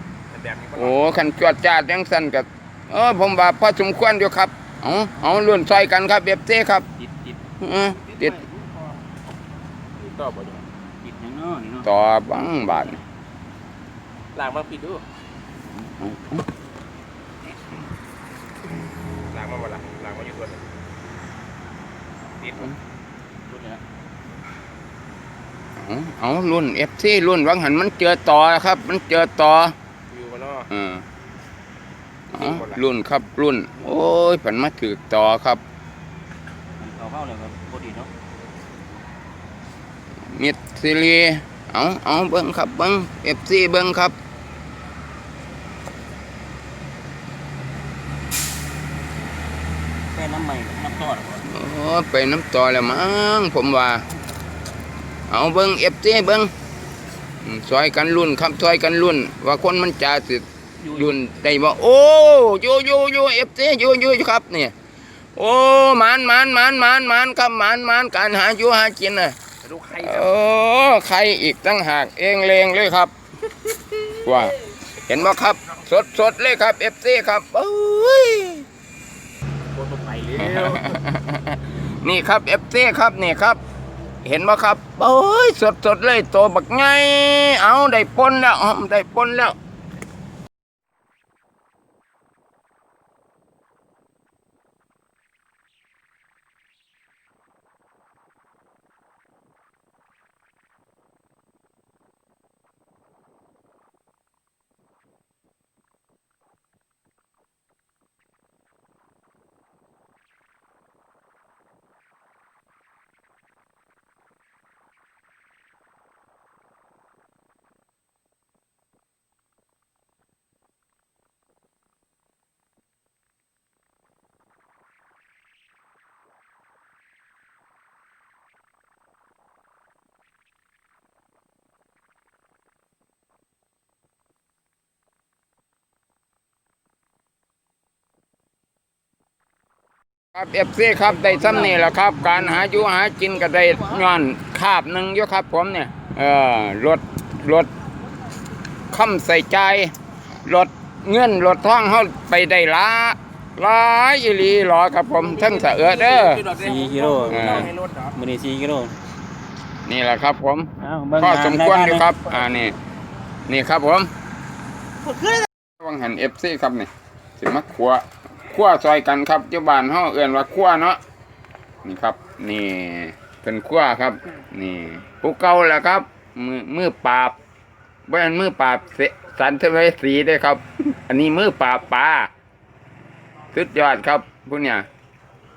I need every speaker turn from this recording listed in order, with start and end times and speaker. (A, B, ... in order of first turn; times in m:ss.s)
0:00.3-0:00.9 A
0:00.7-0:06.9 B
0:07.0-0:07.4 C
0:07.6-0:08.4 B
0:08.2-0:08.9 C
0:10.0-0:10.6 A
0:11.0-0:11.9 C
0:11.8-0:13.0 B
0:14.3-0:15.0 A
0:15.9-0:16.4 B
0:19.3-0:20.6 A
0:22.4-0:22.7 A
0:23.5-0:23.8 C
0:25.8-0:29.8 B
0:30.1-0:30.7 A
0:30.7-0:31.0 B
0:32.3-0:35.6 B
0:36.8-0:38.1 C
0:40.3-0:44.2 B
0:50.1-0:51.5 C
0:51.4-0:54.0 B
0:55.3-0:56.5 B
0:57.4-1:04.8 B
1:05.4-1:09.4 B
1:09.6-1:10.1 A
1:09.9-1:13.1 B
1:13.7-1:18.7 B
1:19.7-1:20.8 A
1:20.4-1:23.6 B
1:24.2-1:29.6 B
2:20.3-2:27.7 B
2:21.3-2:22.7 C
2:28.9-2:29.9 B
2:30.4-2:36.5 B
2:35.4-2:38.2 A
2:36.5-2:39.0 C
2:37.3-2:37.7 B
2:39.8-2:42.8 B
2:40.8-2:42.2 C
2:43.5-2:44.1 B
2:45.8-2:51.0 B
2:51.8-2:57.4 B
2:58.1-3:02.3 B
3:03.5-3:04.9 B